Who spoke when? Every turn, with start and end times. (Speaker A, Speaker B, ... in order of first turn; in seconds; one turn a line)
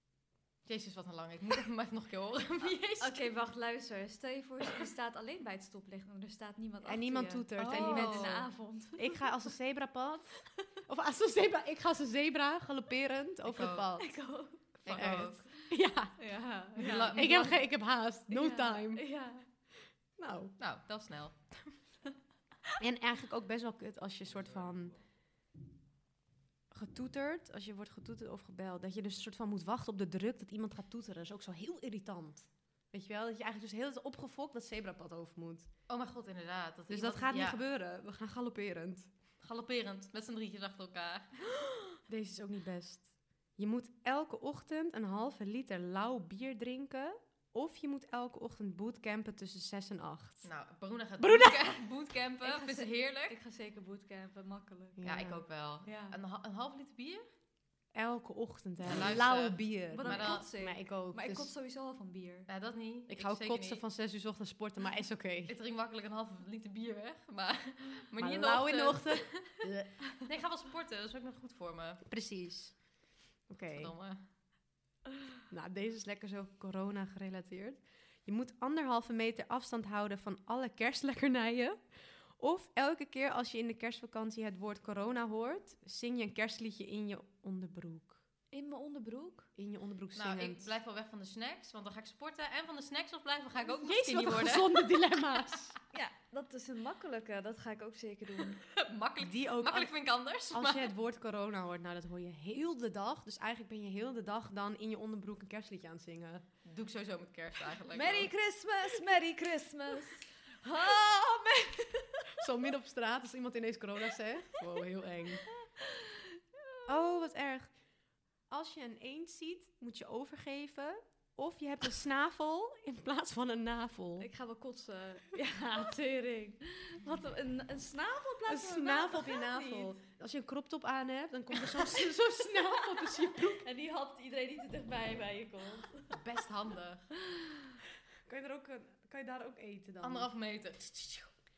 Speaker A: 0.7-3.3
Speaker B: 3.0-9.3
Speaker C: 6.8-8.4
Speaker A: 7.6-8.4
Speaker C: 9.0-14.1
Speaker A: 13.5-13.9
Speaker B: 14.0-15.2
Speaker A: 14.8-15.5
Speaker C: 14.9-16.2
Speaker B: 16.2-17.6
Speaker A: 16.8-17.6
Speaker C: 17.1-19.1
Speaker B: 18.3-19.5
Speaker C: 20.2-20.6
Speaker A: 20.6-21.7
Speaker C: 22.8-25.0
Speaker C: 26.7-35.7
Speaker A: 35.9-37.6
Speaker C: 36.9-39.1
Speaker A: 39.4-41.5
Speaker C: 42.1-50.5
Speaker A: 50.4-53.4
Speaker C: 51.2-51.6
Speaker B: 52.4-55.0
Speaker C: 55.0-55.4
Speaker A: 55.0-57.3
Speaker B: 55.9-56.2
Speaker C: 57.9-61.5
Speaker A: 58.9-60.5
Speaker B: 59.9-62.5
Speaker A: 62.5-63.8
Speaker C: 63.1-65.5
Speaker A: 65.5-69.6
Speaker C: 68.2-70.0
Speaker A: 70.2-72.0
Speaker C: 72.1-72.9
Speaker C: 73.5-73.9
Speaker A: 73.7-74.2
Speaker C: 75.5-81.8
Speaker C: 82.4-88.2
Speaker B: 88.5-89.5
Speaker C: 89.6-90.7
Speaker A: 90.2-95.0
Speaker C: 93.7-95.8
Speaker B: 95.9-98.6
Speaker A: 98.7-100.9
Speaker C: 99.2-99.9
Speaker C: 100.5-106.5
Speaker A: 106.7-108.3
Speaker B: 107.9-112.4
Speaker C: 112.4-115.5
Speaker C: 116.9-117.8
Speaker C: 118.5-124.3
Speaker B: 124.2-130.0
Speaker C: 128.5-133.7
Speaker B: 132.9-136.0
Speaker A: 136.1-137.1
Speaker C: 138.3-140.3
Speaker A: 140.0-141.3